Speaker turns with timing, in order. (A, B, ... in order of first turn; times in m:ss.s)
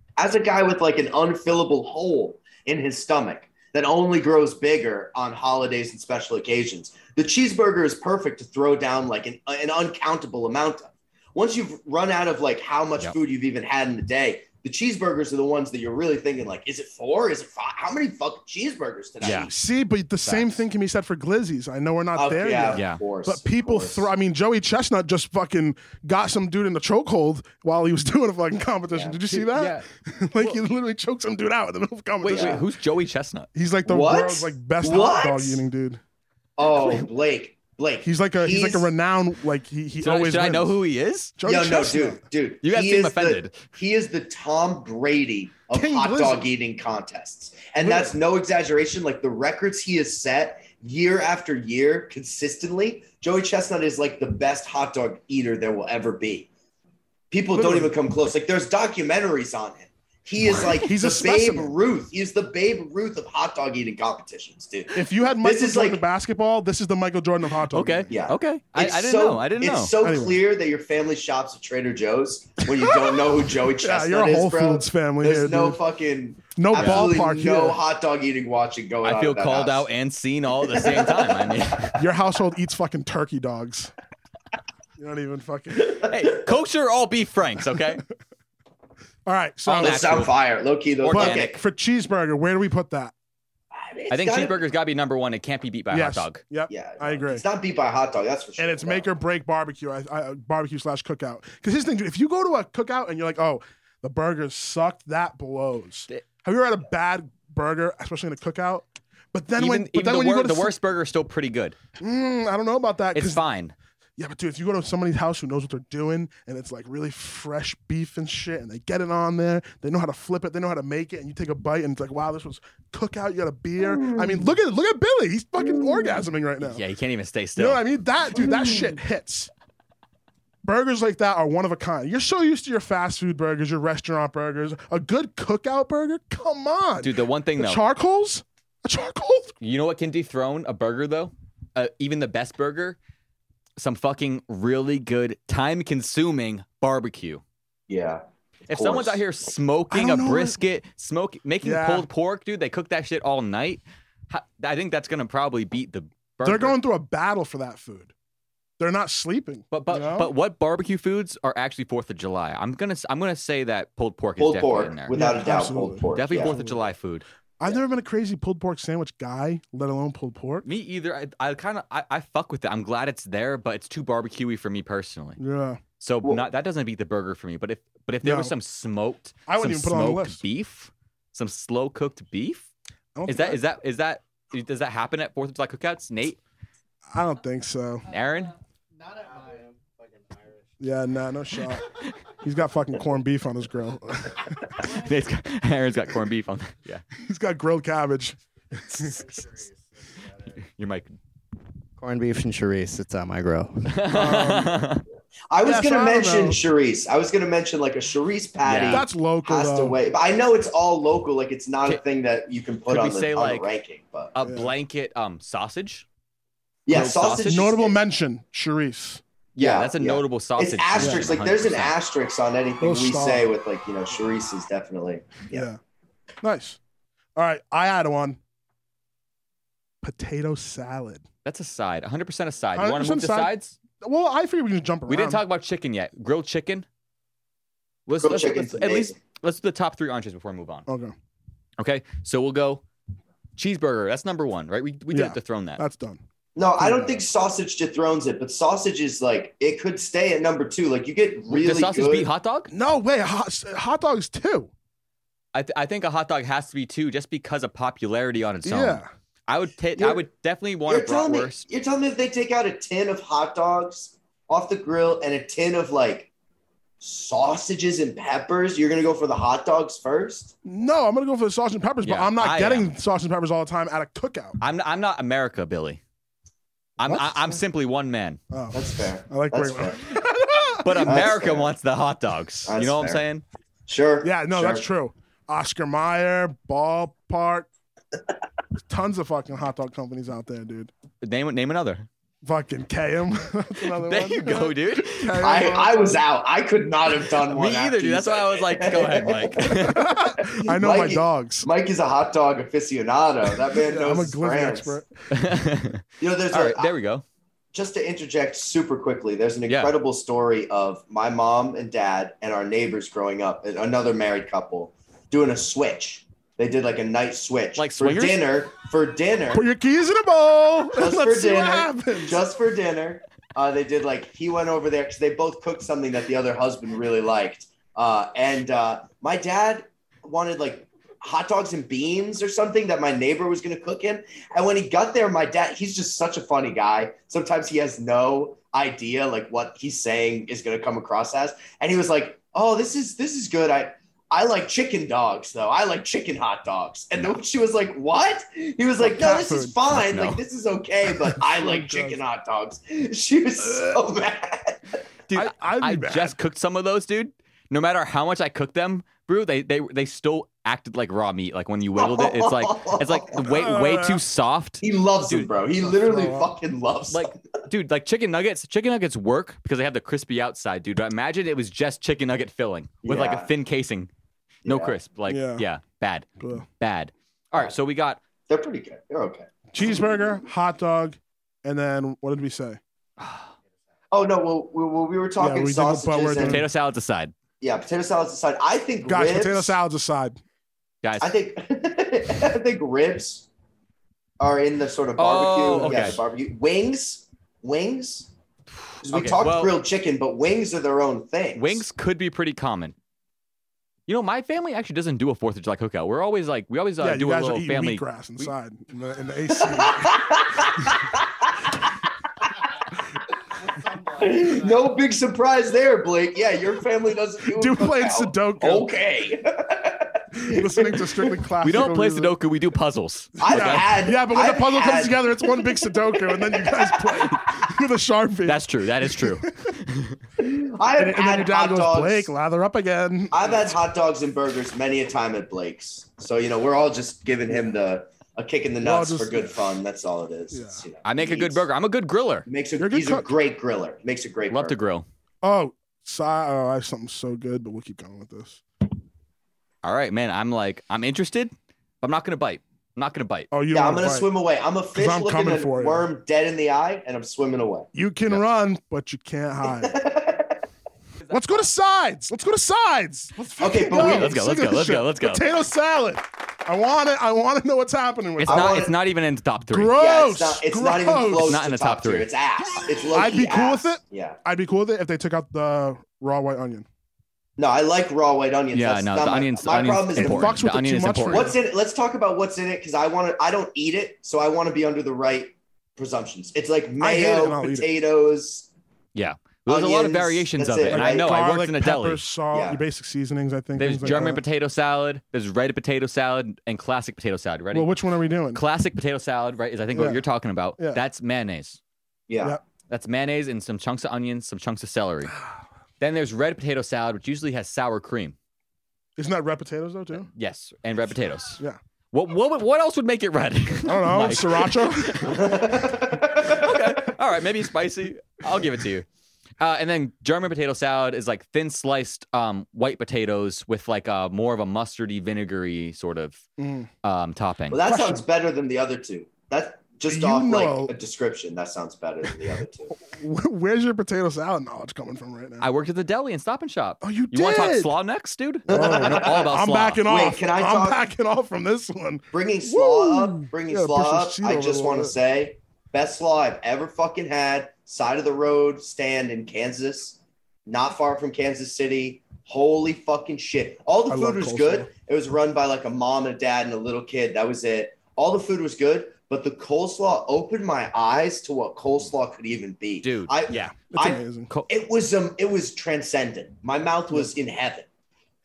0:00.2-0:19.5 A
0:19.2-0:19.5 B
0:19.5-0:32.6 C
0:22.2-0:24.1 A
0:22.7-0:23.0 B
0:28.9-0:29.2 A
0:29.4-0:29.8 B
0:32.2-0:33.5 B
0:32.3-0:32.6 A
0:33.5-0:36.0 C
0:33.8-0:35.6 A
0:36.6-0:38.9 A
0:38.0-0:40.8 C
0:40.0-0:41.3 B
0:41.4-0:42.2 C
0:41.4-0:56.5 A
0:42.6-0:43.6 B
0:45.7-0:46.4 C
0:47.8-0:48.1 C
0:57.3-1:06.0 A
0:57.5-0:57.9 C
1:00.8-1:01.7 C
1:04.9-1:08.1 C
1:07.7-1:09.9 B
1:08.1-1:19.9 A
1:10.0-1:10.4 C
1:12.8-1:15.8 C
1:16.6-1:17.8 C
1:16.8-1:17.1 B
1:19.0-1:22.0 B
1:20.7-1:21.5 A
1:22.0-1:23.9 C
1:25.0-1:26.0 C
1:26.1-1:28.0 B
1:29.2-1:30.2 C
1:29.6-1:30.4 B
1:29.8-1:31.5 A
1:31.0-1:31.6 B
1:31.1-1:33.1 C
1:33.7-1:34.6 A
1:34.1-1:36.4 B
1:35.9-1:37.4 C
1:36.7-1:39.1 A
1:38.6-1:50.7 C
1:49.6-1:51.8 B
1:52.0-1:53.4 C
1:53.1-1:53.7 B
1:54.2-2:06.8 C
2:03.9-2:04.4 A
2:06.6-2:07.8 B
2:07.6-2:09.5 C
2:10.6-2:19.5 C
2:17.0-2:17.8 B
2:19.6-2:23.0 B
2:23.8-2:27.4 B
2:27.9-2:29.2 A
2:28.7-2:36.7 B
2:29.9-2:30.6 C
2:31.6-2:32.1 C
2:36.4-2:38.1 C
2:38.8-2:40.3 C
2:39.7-2:45.1 B
2:44.4-2:46.5 A
2:45.1-2:46.9 C
2:46.1-2:47.2 B
2:47.6-2:50.7 C
2:50.6-2:55.4 B
2:55.4-2:55.8 C
2:56.0-3:02.7 B
2:58.2-2:58.5 C
2:59.5-3:00.4 C
3:03.2-3:03.6 C
3:03.3-3:06.4 B
3:07.1-3:08.0 C
3:08.1-3:08.5 B
3:09.2-3:10.4 D
3:10.8-3:11.8 C
3:12.4-3:14.9 C
3:14.8-3:17.0 B
3:17.2-3:19.2 C
3:20.5-3:21.1 B
3:22.0-3:23.9 D
3:23.8-3:25.0 B
3:24.1-3:24.8 C
3:25.5-3:34.3 A
3:25.6-3:26.6 C
3:28.6-3:29.0 B
3:28.9-3:30.0 C
3:32.9-3:33.7 B
3:34.3-3:36.0 B
3:34.4-3:34.7 C
3:36.8-3:38.0 A
3:36.9-3:37.7 B
3:37.5-3:39.2 C
3:39.6-3:41.9 B
3:39.6-3:45.7 A
3:42.8-3:43.5 C
3:45.5-3:45.8 C
3:46.4-3:46.8 C
3:47.4-3:48.4 C
3:50.0-3:51.2 C
3:51.4-3:53.8 B
3:52.8-3:55.4 C
3:55.1-3:56.8 B
3:58.1-4:00.8 B
3:58.2-3:59.2 A
4:00.9-4:01.1 C
4:01.8-4:02.8 B
4:03.6-4:05.8 B
4:05.1-4:06.2 C
4:06.6-4:12.3 A
4:06.8-4:07.2 C
4:11.5-4:12.7 B
4:12.7-4:14.7 C
4:15.5-4:21.6 B
4:18.6-4:19.1 C
4:20.0-4:20.2 A
4:20.9-4:26.3 A
4:27.0-4:30.5 A
4:30.6-4:34.6 C
4:32.0-4:32.9 B
4:34.6-4:36.0 B
4:37.0-4:38.4 B
4:37.1-4:37.4 C
4:38.5-4:41.2 C
4:38.7-4:40.0 A
4:40.8-4:43.4 B
4:41.0-4:41.7 A
4:42.7-4:43.2 A
4:43.9-4:44.8 A
4:44.2-4:47.7 C
4:48.9-4:50.9 C
4:51.2-4:52.1 B
4:52.4-4:56.2 C
4:53.8-4:55.5 B
4:55.4-5:05.0 A
4:57.4-5:00.1 B
4:59.7-5:01.7 C
5:03.8-5:05.1 C
5:05.3-5:07.2 B
5:06.2-5:06.9 A
5:07.7-5:19.6 A
5:17.8-5:18.4 B
5:19.5-5:22.4 C
5:20.9-5:55.0 A
5:49.0-5:49.8 C
5:49.9-5:50.4 B
5:51.4-5:52.2 C
5:55.3-6:05.5 B
5:55.3-5:56.4 C
6:02.0-6:03.6 A
6:03.5-6:04.2 C
6:04.8-6:07.4 A
6:05.9-6:06.5 C
6:07.1-6:14.1 B
6:13.0-6:13.5 A
6:14.6-6:18.2 B
6:14.6-6:15.0 A
6:15.3-6:15.6 C
6:16.4-6:16.6 C
6:18.5-6:20.0 A
6:19.7-6:22.8 C
6:23.2-6:23.5 B
6:24.1-6:26.6 A
6:25.4-6:26.7 C
6:26.4-6:27.3 B
6:27.6-6:29.8 A
6:29.1-6:30.4 C
6:31.0-6:31.3 B
6:31.2-6:33.5 A
6:34.4-6:38.3 A
6:35.2-6:36.2 B
6:35.7-6:36.1 C
6:39.0-6:39.8 B
6:39.0-6:41.8 A
6:41.6-6:42.9 B
6:44.1-6:48.5 B
6:47.0-6:50.2 C
6:49.5-6:51.9 A
6:53.9-7:01.4 A
6:57.6-6:58.9 C
7:00.3-7:02.4 C
7:01.6-7:03.9 B
7:03.4-7:09.7 C
7:03.4-7:07.4 A
7:08.4-7:10.2 B
7:10.4-7:12.3 A
7:11.0-7:13.6 C
7:13.3-7:21.6 A
7:18.8-7:19.5 C
7:20.5-7:20.8 C
7:21.0-7:22.4 B
7:22.4-7:24.8 A
7:22.8-7:23.3 C
7:24.5-7:25.0 B
7:25.4-7:28.6 C
7:29.8-7:33.5 B
7:33.5-7:34.3 C
7:33.7-7:37.9 A
7:34.9-7:36.1 C
7:37.9-7:39.9 C
7:39.6-7:40.6 A
7:41.2-7:41.6 B
7:41.3-7:48.9 C
7:43.6-7:44.4 A
7:43.9-7:45.4 B
7:48.4-7:49.9 B
7:48.5-7:48.9 A
7:49.7-7:51.5 C
7:49.9-7:54.4 A
7:51.4-7:52.3 B
7:53.1-7:56.8 C
7:57.6-8:00.6 A
7:58.7-8:01.5 B
8:00.2-8:01.5 C
8:01.2-8:08.7 A
8:07.0-8:07.9 C
8:09.1-8:12.2 B
8:09.7-8:11.3 A
8:10.9-8:14.4 C
8:12.5-8:12.8 A
8:13.8-8:17.9 B
8:17.7-8:18.6 C
8:18.5-8:21.8 B
8:19.9-8:20.2 C
8:22.3-8:22.6 A
8:22.9-8:25.3 B
8:26.0-8:28.3 B
8:29.2-8:30.3 C
8:30.3-8:31.6 B
8:32.1-8:39.0 B
8:33.8-8:35.4 C
8:35.3-8:36.9 A
8:39.6-8:46.4 B
8:46.6-8:46.9 C
8:47.0-8:47.8 B
8:47.7-8:52.9 A
8:47.9-8:48.2 C
8:50.1-8:50.9 C
8:53.1-8:55.6 C
8:55.6-9:00.0 B
8:57.0-8:57.9 C
8:58.7-8:59.5 A
8:58.7-9:05.1 C
9:00.0-9:01.0 A
9:02.3-9:27.9 A
9:14.1-9:14.9 C
9:23.0-9:23.9 B
9:23.9-9:24.5 C